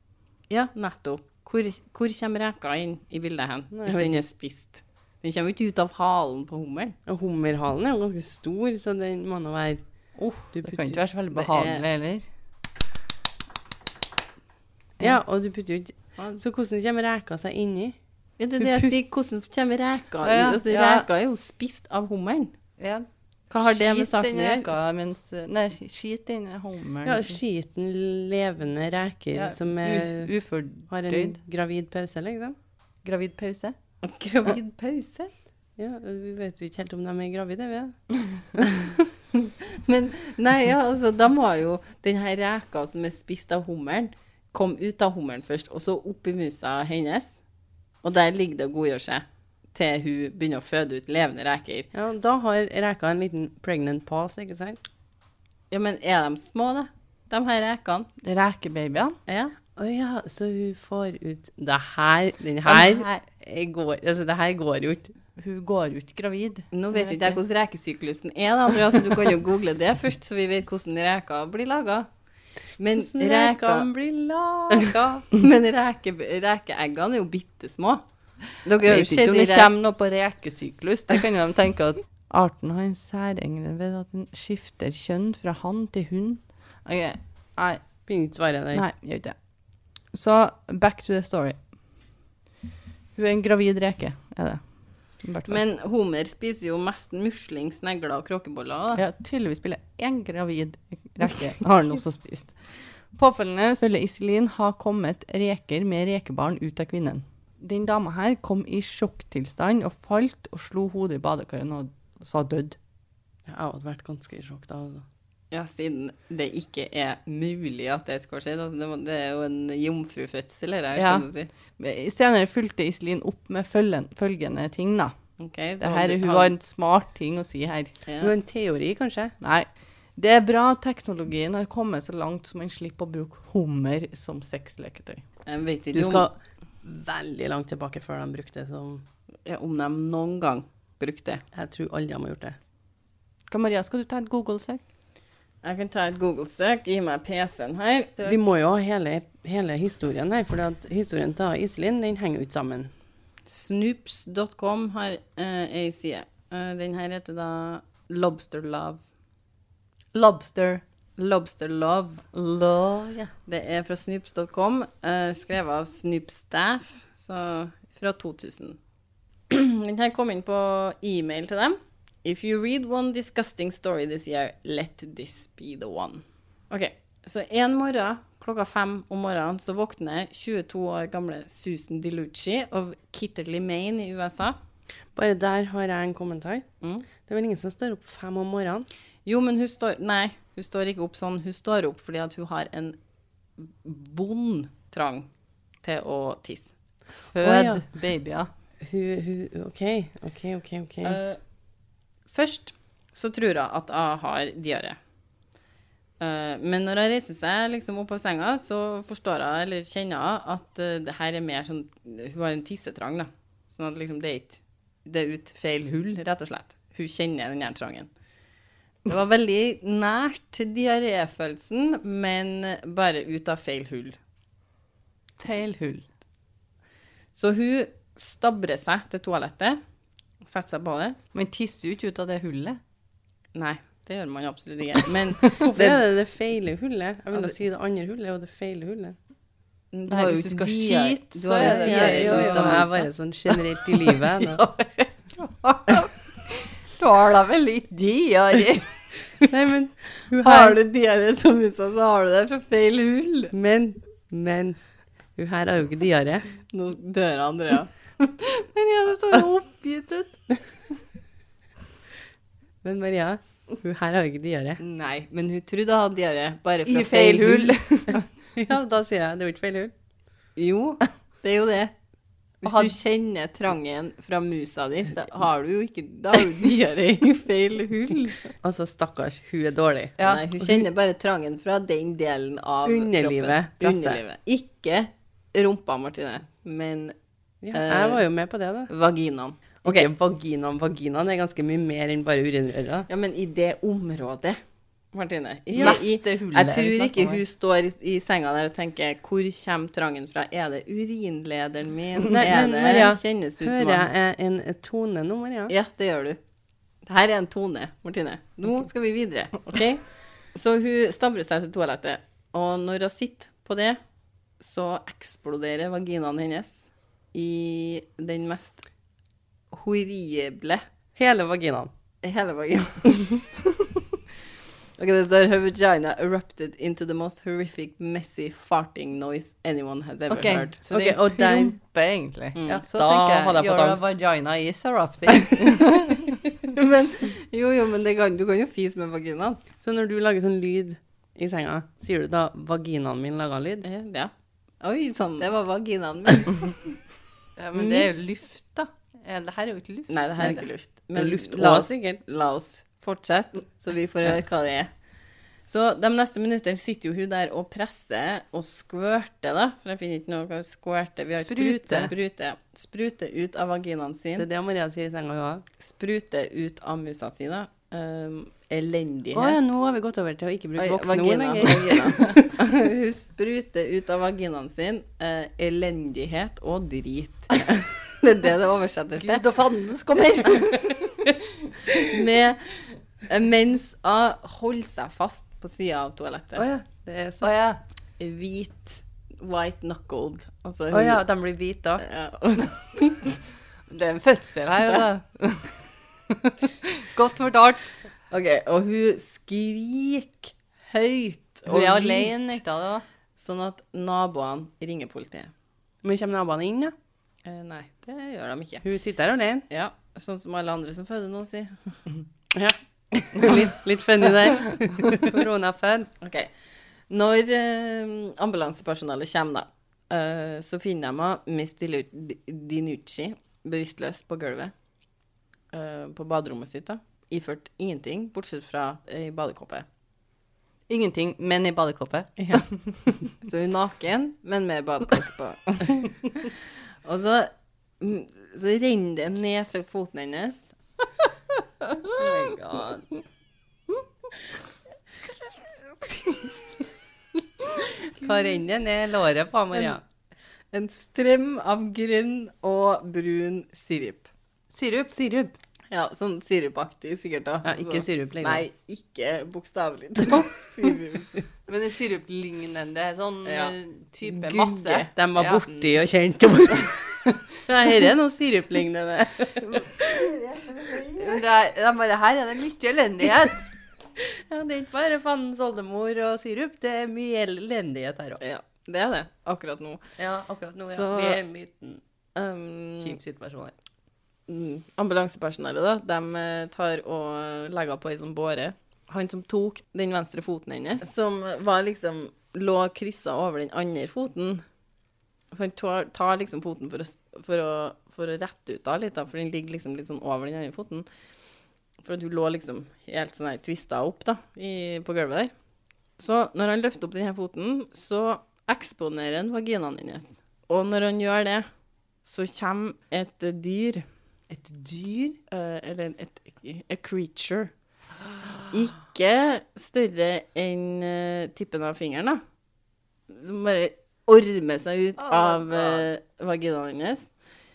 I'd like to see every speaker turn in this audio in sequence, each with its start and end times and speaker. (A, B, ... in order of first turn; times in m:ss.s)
0:00.5-0:07.0 A
0:03.7-0:04.2 B
0:07.1-0:09.8 B
0:10.2-0:12.2 C
0:10.5-0:11.0 B
0:11.3-0:11.8 A
0:15.0-0:18.0 B
0:18.4-0:22.5 A
0:18.6-0:18.9 C
0:20.2-0:21.1 C
0:22.8-0:23.1 C
0:23.5-0:24.8 A
0:23.6-0:27.4 C
0:27.0-0:30.3 B
0:29.8-0:31.4 C
0:30.9-0:32.6 B
0:33.0-0:33.8 C
0:34.0-0:35.3 A
0:35.8-0:38.7 B
0:39.3-0:47.4 A
0:48.0-0:51.9 A
0:51.9-0:54.8 B
0:55.7-0:58.1 A
0:58.2-0:59.2 C
0:59.3-1:05.1 B
1:02.6-1:03.2 C
1:05.4-1:07.4 C
1:06.7-1:12.1 A
1:12.8-1:13.9 A
1:12.9-1:15.2 B
1:14.7-1:18.0 A
1:18.6-1:19.7 A
1:18.8-1:27.8 C
1:28.1-1:28.8 B
1:28.7-1:29.4 C
1:30.1-1:31.6 C
1:33.2-1:35.6 C
1:35.5-1:39.0 A
1:39.0-1:52.8 C
1:53.5-1:55.0 B
1:55.5-2:01.5 A
2:01.0-2:01.3 C
2:01.8-2:05.2 C
2:05.4-2:06.5 A
2:05.8-2:08.0 C
2:08.1-2:08.3 A
2:08.2-2:09.3 B
2:09.4-2:15.2 C
2:15.5-2:16.3 A
2:15.9-2:19.0 B
2:19.4-2:21.4 A
2:21.5-2:22.6 B
2:23.5-2:24.8 C
2:25.6-2:28.2 A
2:28.2-2:32.9 B
2:33.5-2:39.0 A
2:40.1-2:40.8 C
2:41.2-2:42.2 A
2:42.3-2:43.3 C
2:43.5-2:48.8 A
2:49.5-3:04.6 A
3:05.2-3:06.6 B
3:06.8-3:07.1 A
3:07.2-3:08.9 B
3:09.2-3:13.0 A
3:13.6-3:15.3 A
3:15.8-3:16.7 A
3:17.3-3:18.5 C
3:17.4-3:17.9 B
3:18.8-3:21.2 B
3:21.0-3:21.4 A
3:22.3-3:25.0 A
3:26.2-3:38.1 A
3:39.1-3:44.2 A
3:45.4-3:46.1 C
3:47.4-3:49.8 A
3:50.4-3:51.2 A
3:51.3-3:52.8 C
3:53.6-3:56.0 A
3:55.6-3:59.2 B
3:59.9-4:03.1 A
4:00.1-4:02.9 C
4:01.6-4:04.6 B
4:03.5-4:09.0 C
4:09.5-4:10.8 B
4:10.3-4:13.5 A
4:13.5-4:14.8 B
4:15.4-4:16.5 B
4:16.7-4:18.3 A
4:18.6-4:20.4 C
4:22.8-4:24.8 B
4:24.8-4:27.8 A
4:26.9-4:28.2 C
4:28.6-4:29.9 B
4:30.6-4:31.9 A
4:32.6-4:38.5 A
4:32.6-4:32.9 C
4:38.6-4:40.9 B
4:40.2-4:40.4 C
4:40.2-4:47.2 A
4:42.9-4:44.2 B
4:47.6-4:48.9 B
4:47.7-4:48.2 A
4:48.9-4:50.1 A
4:49.8-4:53.1 B
4:53.1-4:54.6 A
4:55.1-5:04.1 A
4:55.7-4:56.0 B
4:55.8-4:57.4 C
5:02.3-5:05.7 B
5:05.7-5:06.4 A
5:07.0-5:14.0 A
5:14.6-5:18.8 A
5:19.7-5:20.8 A
5:21.2-5:21.9 B
5:22.2-5:23.6 A
5:25.0-5:30.8 A
5:30.3-5:36.4 C
5:30.9-5:31.8 B
5:32.6-5:32.8 A
5:32.7-5:34.0 B
5:36.6-5:39.6 A
5:39.8-5:43.8 B
5:43.8-5:44.3 A
5:44.8-5:46.8 A
5:47.6-5:50.6 C
5:47.8-5:48.2 A
5:50.1-5:54.9 A
5:51.2-5:52.2 B
5:55.6-6:04.5 A
6:01.5-6:02.1 B
6:01.5-6:02.1 C
6:04.4-6:05.6 B
6:05.8-6:09.6 A
6:09.3-6:12.2 B
6:10.8-6:19.4 A
6:19.2-6:21.3 C
6:22.0-6:22.6 A
6:23.3-6:26.7 A
6:26.6-6:27.5 B
6:27.4-6:27.8 C
6:28.2-6:31.2 A
6:30.9-6:32.0 B
6:32.0-6:33.4 A
6:33.9-6:37.9 C
6:38.3-6:42.6 A
6:41.7-6:43.0 C
6:43.4-6:45.5 A
6:46.0-6:46.9 B
6:47.4-6:48.8 A
6:48.8-6:49.6 B
6:49.7-6:52.0 A
6:52.5-6:56.1 B
6:56.2-6:56.5 A
6:57.1-7:04.7 A
7:05.7-7:09.9 A
7:10.9-7:13.1 C
7:12.4-7:12.7 A
7:13.2-7:20.7 A
7:22.1-7:23.1 B
7:26.0-7:26.5 A
7:28.2-7:30.0 B
7:30.7-7:34.3 A
7:34.7-7:35.2 C
7:35.1-7:35.5 B
7:35.9-7:41.4 A
7:37.6-7:38.6 B
7:41.7-7:45.7 C
7:43.5-7:43.7 A
7:44.3-7:45.1 A
7:45.2-7:50.0 B
7:50.0-7:53.7 C
7:54.2-7:58.4 B
7:58.4-8:00.0 A
8:00.2-8:02.0 B
8:00.9-8:01.4 A
8:02.4-8:03.2 A
8:03.0-8:03.7 B
8:04.5-8:14.6 A
8:15.5-8:21.1 A
8:22.0-8:25.5 A
8:26.2-8:31.7 A
8:32.2-8:34.0 A
8:34.5-8:35.4 C
8:35.5-8:37.7 A
8:38.7-8:42.4 A
8:43.3-8:47.3 A
8:45.2-8:46.1 C